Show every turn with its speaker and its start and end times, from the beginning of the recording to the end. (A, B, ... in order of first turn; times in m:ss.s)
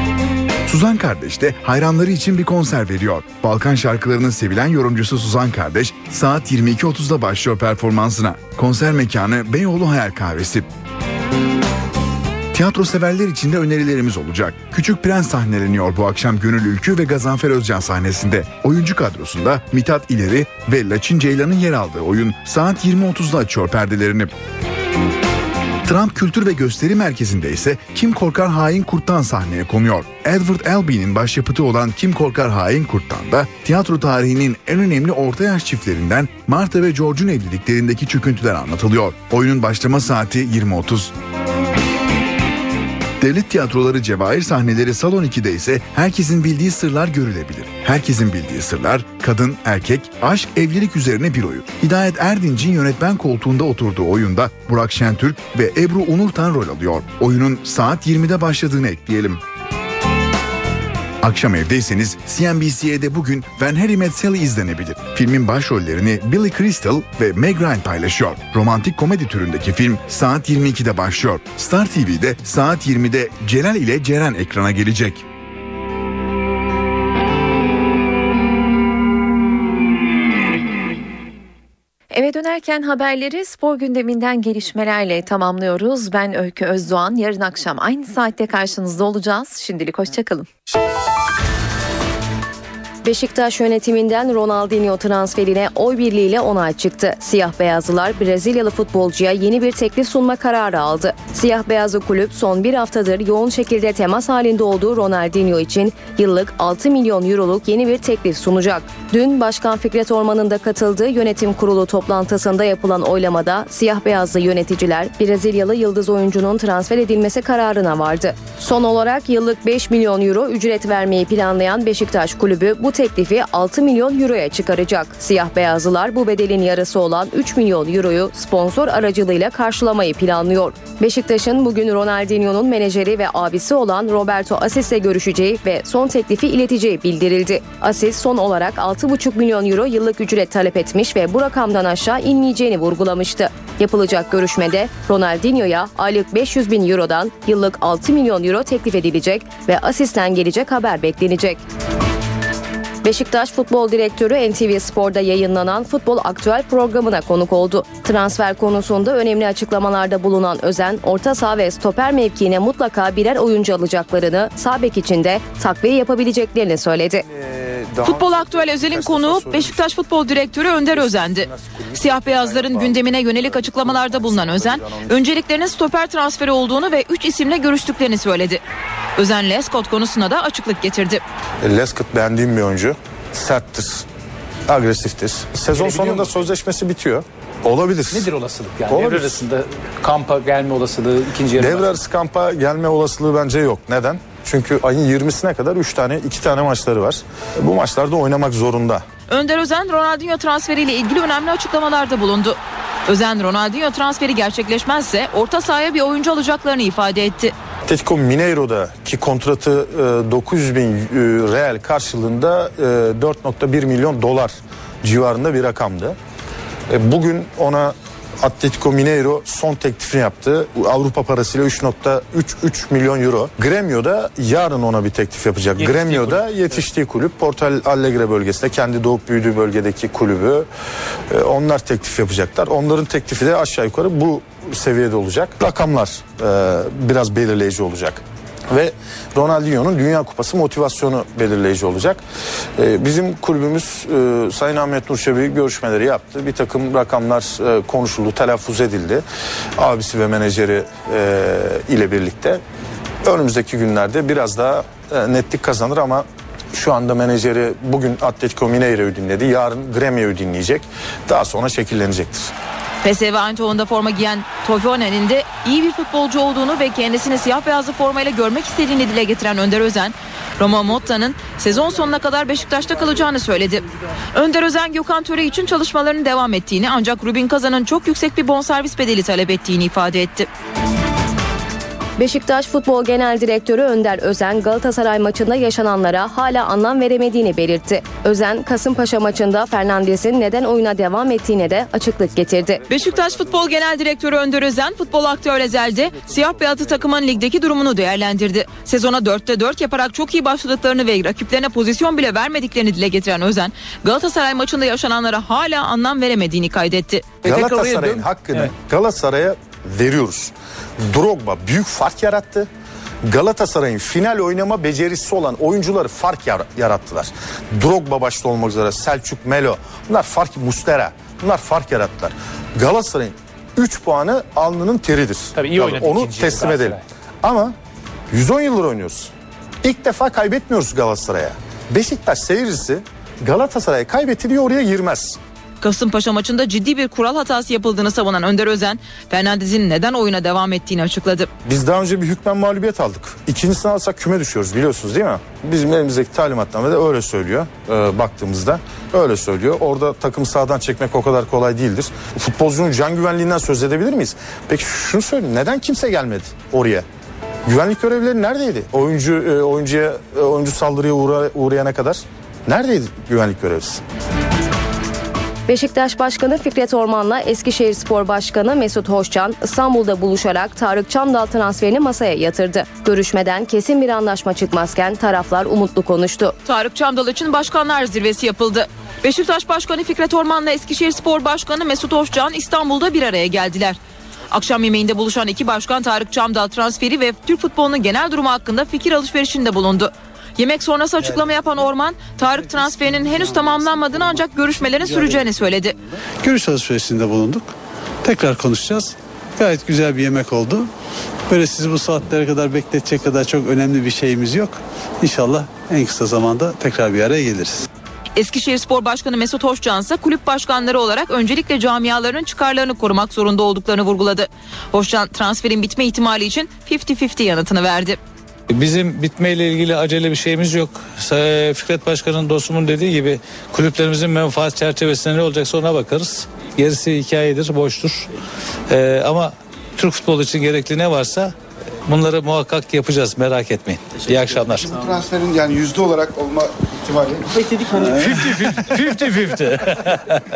0:00.6-0:10.7 A
0:12.5-0:24.3 A
0:25.8-0:41.1 A
0:43.2-0:59.4 A
1:01.2-1:15.2 A
1:22.1-1:30.5 B
1:33.0-2:31.6 C
2:33.0-2:47.2 C
2:47.3-2:49.8 D
2:48.0-2:58.6 E
2:50.8-2:55.2 D
2:59.2-3:01.2 E
3:01.6-3:04.0 D
3:04.7-3:08.2 D
3:05.7-3:06.5 F
3:08.1-3:11.9 F
3:08.9-3:09.4 D
3:11.6-3:19.0 D
3:19.3-3:27.5 E
3:27.9-3:36.2 D
3:36.9-3:50.7 D
3:45.8-3:46.4 F
3:51.3-4:02.2 D
4:02.8-4:09.2 D
4:09.8-4:12.6 D
4:13.2-4:22.5 D
4:23.0-4:40.5 E
4:42.2-4:52.8 C
4:52.9-5:07.3 E
5:07.4-5:10.5 D
5:11.0-5:12.7 D
5:13.2-5:27.7 D
5:25.6-5:27.0 F
5:28.3-5:29.3 D
5:29.8-5:35.4 D
5:35.8-5:41.5 E
5:41.6-5:57.0 D
5:57.6-6:04.0 D
6:05.7-6:16.5 C
6:16.6-6:24.0 E
6:24.5-6:36.0 E
6:36.4-6:37.6 G
6:38.2-6:40.9 G
6:41.5-6:47.8 G
6:48.4-6:58.2 E
6:58.7-7:08.2 H
7:08.9-7:11.5 H
7:12.1-7:14.7 H
7:13.9-7:15.3 I
7:17.7-7:19.0 I
7:18.1-7:19.8 H